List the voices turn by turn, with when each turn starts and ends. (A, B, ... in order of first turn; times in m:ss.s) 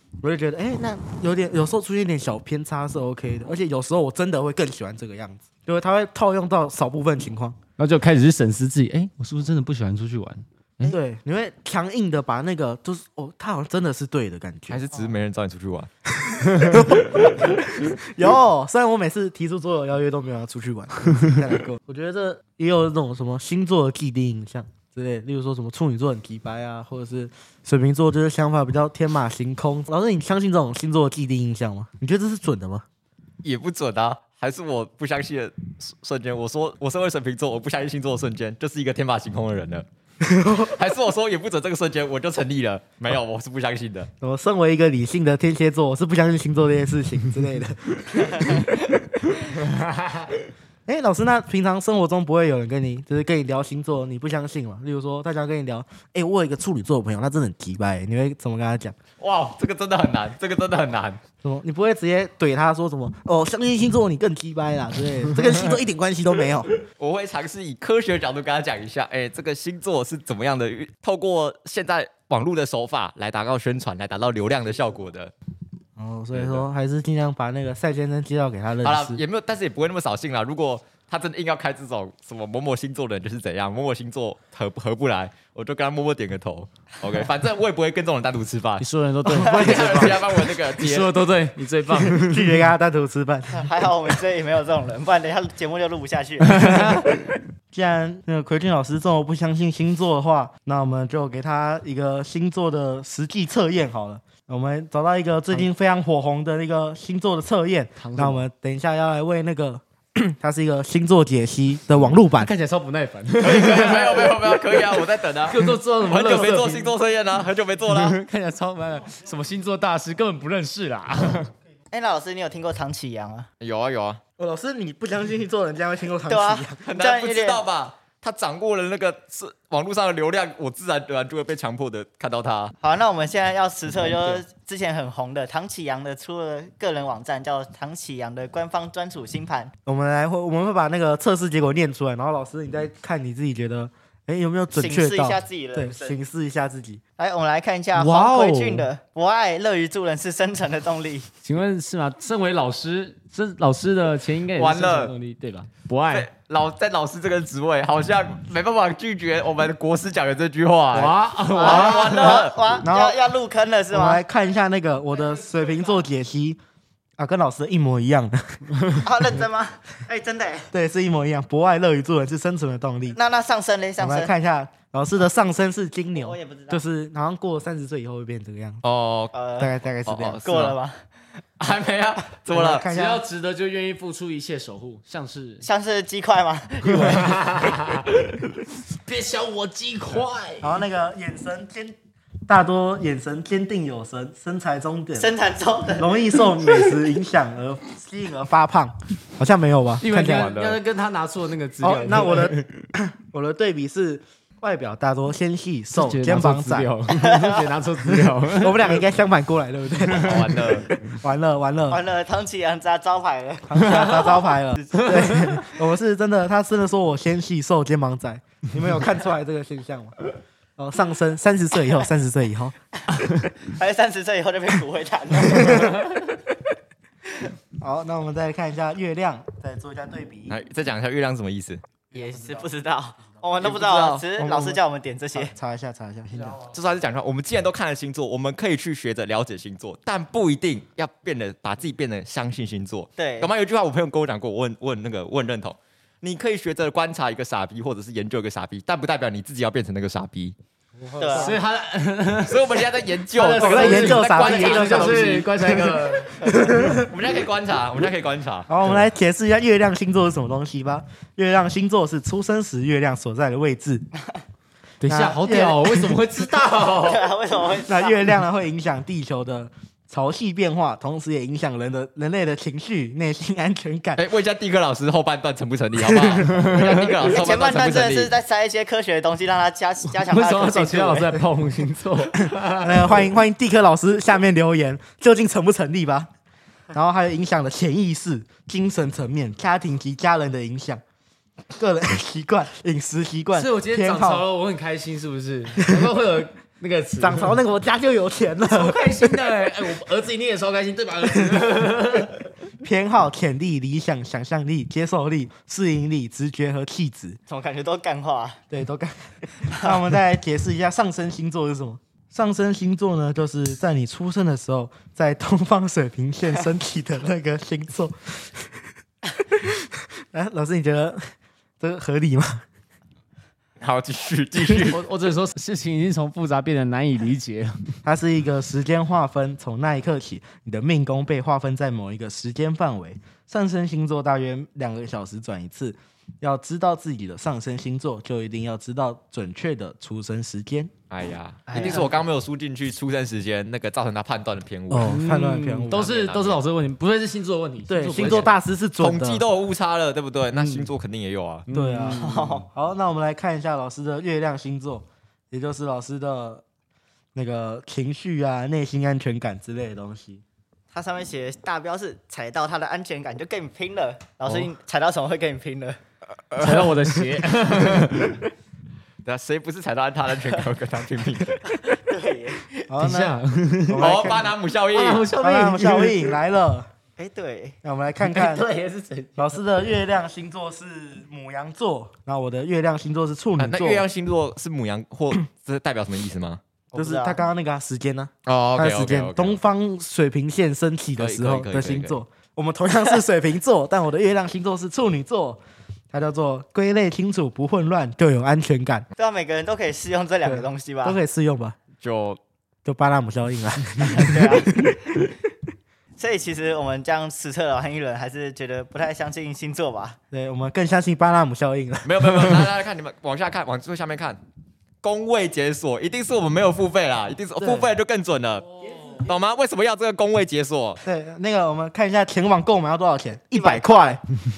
0:00.2-0:07.6 A
0:07.8-0:11.0 B
0:10.8-0:14.8 A
0:14.7-0:15.9 C
0:16.2-0:32.8 A
0:33.4-0:39.8 C
0:40.2-0:40.7 A
0:40.5-0:44.1 C
0:44.2-0:49.2 A
0:50.8-0:59.0 A
0:59.2-1:01.2 C
1:01.4-1:06.7 A
1:07.0-1:15.3 C
1:16.0-1:19.2 A
1:16.3-1:16.6 C
1:18.8-1:28.8 C
1:28.8-1:32.5 B
1:29.2-1:30.0 D
1:29.4-1:31.2 C
1:32.0-1:33.6 A
1:33.5-1:37.0 D
1:37.7-1:52.5 A
1:48.0-1:48.4 B
1:52.4-1:56.9 B
1:53.4-1:58.2 C
1:57.9-2:01.5 B
2:01.9-2:03.5 D
2:03.6-2:04.2 C
2:04.4-2:06.8 A
2:06.2-2:07.6 D
2:06.8-2:12.7 C
2:12.8-2:19.7 D
2:14.0-2:14.4 B
2:19.8-2:27.0 A
2:24.7-2:26.2 D
2:27.2-2:31.3 D
2:27.9-2:28.9 B
2:31.4-2:36.3 B
2:34.5-2:35.1 C
2:36.1-2:42.5 C
2:40.9-2:42.4 B
2:41.5-2:44.2 D
2:42.8-2:43.2 A
2:43.9-2:46.6 A
2:47.2-2:48.7 A
2:49.0-2:50.7 D
2:50.7-2:53.2 A
2:53.1-2:54.3 D
2:54.0-2:58.8 A
2:56.1-2:56.8 D
2:58.8-2:59.3 C
2:59.3-2:59.7 D
2:59.6-3:00.4 A
3:00.0-3:00.8 C
3:00.4-3:01.0 D
3:01.6-3:02.8 C
3:02.5-3:03.2 A
3:02.8-3:05.6 B
3:05.6-3:07.6 D
3:07.0-3:07.9 B
3:08.9-3:10.8 B
3:10.6-3:11.9 A
3:12.5-3:15.3 A
3:15.2-3:16.1 D
3:16.0-3:20.5 A
3:20.0-3:22.7 B
3:20.4-3:20.8 C
3:21.8-3:26.9 A
3:25.9-3:28.8 B
3:27.1-3:27.6 D
3:28.1-3:32.0 A
3:30.2-3:30.9 C
3:31.9-3:34.2 D
3:33.7-3:40.2 A
3:34.8-3:35.3 D
3:40.8-3:42.7 A
3:43.5-3:46.0 D
3:45.5-3:45.9 A
3:47.8-3:50.6 A
3:50.5-3:51.8 C
3:52.1-3:55.5 D
3:52.1-3:52.6 A
3:53.6-3:54.3 C
3:54.4-3:54.8 A
3:55.3-3:56.6 A
3:56.6-4:10.5 C
4:03.2-4:03.5 D
4:11.0-4:11.6 A
4:11.2-4:11.6 D
4:11.3-4:12.8 B
4:12.4-4:15.5 C
4:13.3-4:16.5 B
4:13.6-4:17.0 A
4:16.9-4:18.7 C
4:18.7-4:24.1 A
4:25.0-4:27.2 B
4:25.0-4:26.2 A
4:27.0-4:28.2 D
4:27.9-4:34.2 A
4:34.2-4:38.3 C
4:37.2-4:41.3 D
4:40.1-4:42.9 B
4:42.8-4:46.3 A
4:46.9-4:51.0 A
4:51.8-4:54.5 A
4:53.5-4:57.5 B
4:57.2-4:59.3 A
4:58.7-5:02.4 B
5:02.8-5:07.4 A
5:07.5-5:08.6 D
5:08.7-5:18.8 A
5:09.6-5:09.9 D
5:19.6-5:21.2 A
5:21.8-5:22.6 A
5:23.8-5:25.0 C
5:24.8-5:28.0 B
5:28.0-5:40.9 A
5:41.1-5:45.2 C
5:41.7-5:42.1 A
5:41.7-5:42.1 D
5:44.9-5:46.1 A
5:45.0-5:48.5 B
5:45.9-5:46.6 C
5:47.9-5:49.4 A
5:48.1-5:51.6 C
5:50.5-5:50.9 B
5:51.7-5:52.4 B
5:51.7-5:56.6 A
5:52.1-5:52.6 D
5:57.3-6:00.4 A
6:00.9-6:06.0 D
6:06.5-6:07.2 C
6:06.6-6:08.4 B
6:09.2-6:11.6 C
6:11.6-6:12.9 D
6:12.9-6:13.3 A
6:13.0-6:14.1 B
6:13.9-6:14.5 A
6:14.0-6:15.3 C
6:14.9-6:16.4 B
6:15.4-6:16.9 A
6:17.2-6:17.8 D
6:17.8-6:18.7 A
6:18.2-6:19.6 B
6:19.4-6:24.1 A
6:23.6-6:26.6 C
6:26.9-6:27.4 D
6:26.9-6:35.6 A
6:28.4-6:29.6 C
6:31.2-6:32.2 C
6:36.1-6:39.0 A
6:39.2-6:41.2 D
6:40.4-6:41.8 A
6:42.0-6:42.4 C
6:42.8-6:45.3 A
6:44.0-6:44.8 D
6:46.2-6:50.2 D
6:50.3-6:52.6 A
6:52.0-6:54.4 C
6:55.0-7:01.0 C
6:57.6-6:57.9 A
7:01.0-7:04.2 A
7:03.5-7:04.2 D